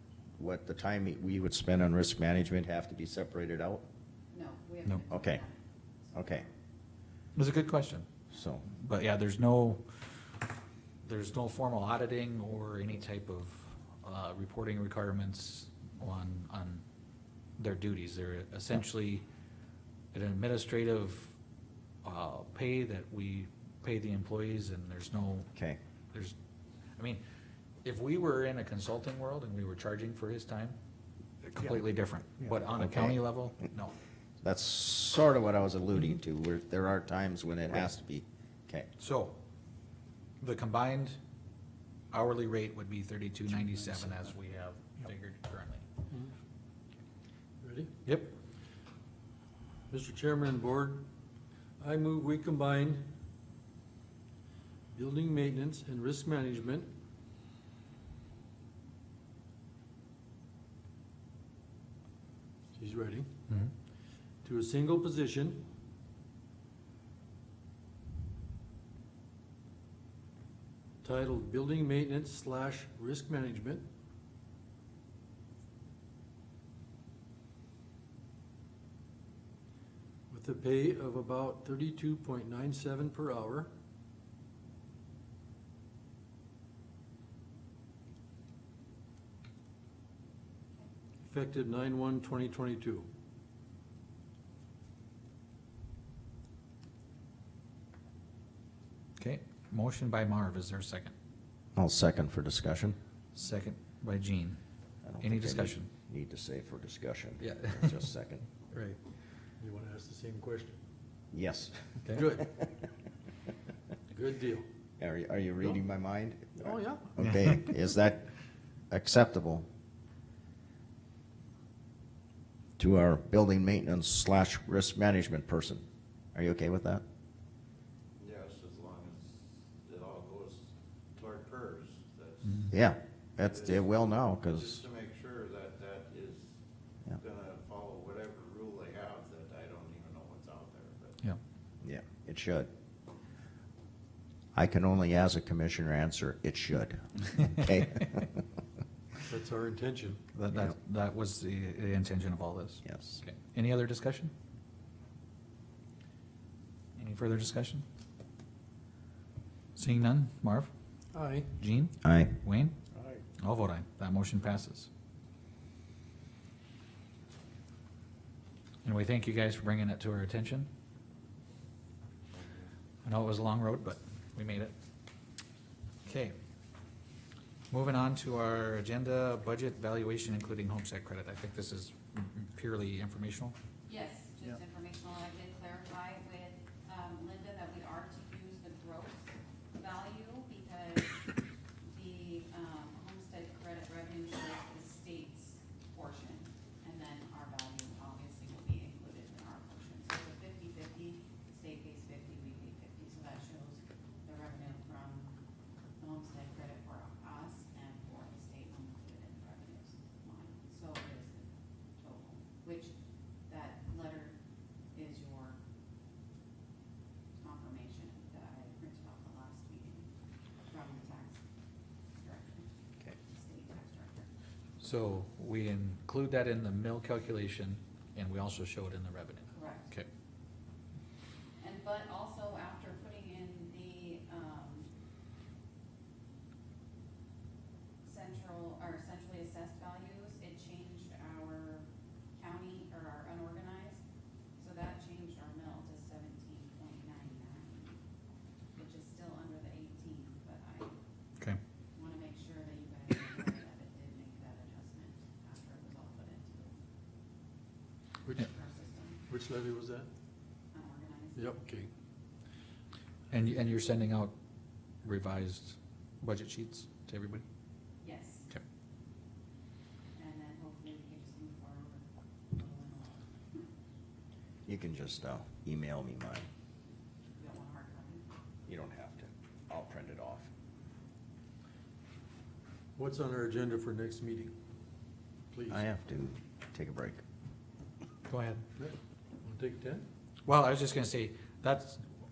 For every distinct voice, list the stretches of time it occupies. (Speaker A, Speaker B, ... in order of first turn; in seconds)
Speaker A: 0.4-3.9, 5.1-5.4, 6.1-6.4, 8.3-8.7, 32.5-33.3, 34.4-38.9, 101.8-103.0, 105.0-108.5, 111.3-112.4, 115.0-118.3, 118.9-119.7, 122.8-127.0, 132.7-134.8, 141.8-142.7, 144.5-148.3, 152.8-153.2, 162.0-162.3, 274.7-276.5, 278.7-280.5, 285.7-287.2
Speaker B: 4.3-5.6, 183.9-191.2, 191.9-205.3, 206.0-212.9, 213.5-214.4, 214.9-215.6, 217.4-220.1, 220.7-221.4, 222.2-224.3, 229.5-229.9, 231.6-234.9, 238.0-241.8, 242.3-244.0, 244.6-247.9, 248.7-250.9, 251.9-256.7, 258.4-259.2, 260.7-261.6, 268.0-268.5, 270.1-273.6, 277.4-278.2
Speaker C: 7.3-8.1, 8.7-10.2, 11.0-16.8, 17.6-19.2, 20.1-21.3, 22.0-25.5, 27.8-30.8, 31.4-33.9, 39.0-39.4, 40.4-41.2, 42.1-45.8, 48.0-48.4, 99.2-101.1, 103.3-104.6, 105.2-105.9, 107.4-108.0, 117.2-117.5, 132.4-132.7, 150.3-154.3, 156.9-157.8, 159.8-160.7, 161.6-162.8, 163.4-164.9, 168.8-170.7, 173.0-174.7, 176.0-176.3, 177.7-183.5, 224.8-230.1, 263.3-264.3, 265.0-267.4, 288.3-288.6, 290.4-292.0
Speaker D: 47.6-47.9, 49.9-51.1, 51.8-53.1, 54.9-56.9, 62.7-63.3, 64.4-65.7, 71.0-73.8, 80.3-83.7, 91.2-93.1, 108.7-109.0, 109.6-110.8, 112.1-112.5, 114.1-114.7, 116.6-117.1, 149.3-150.2, 161.1-161.5, 258.2-258.5, 259.3-260.1, 261.4-261.9, 282.9-284.6, 285.5-285.8, 288.8-290.1
Speaker E: 128.2-132.7, 133.4-136.6, 137.2-141.2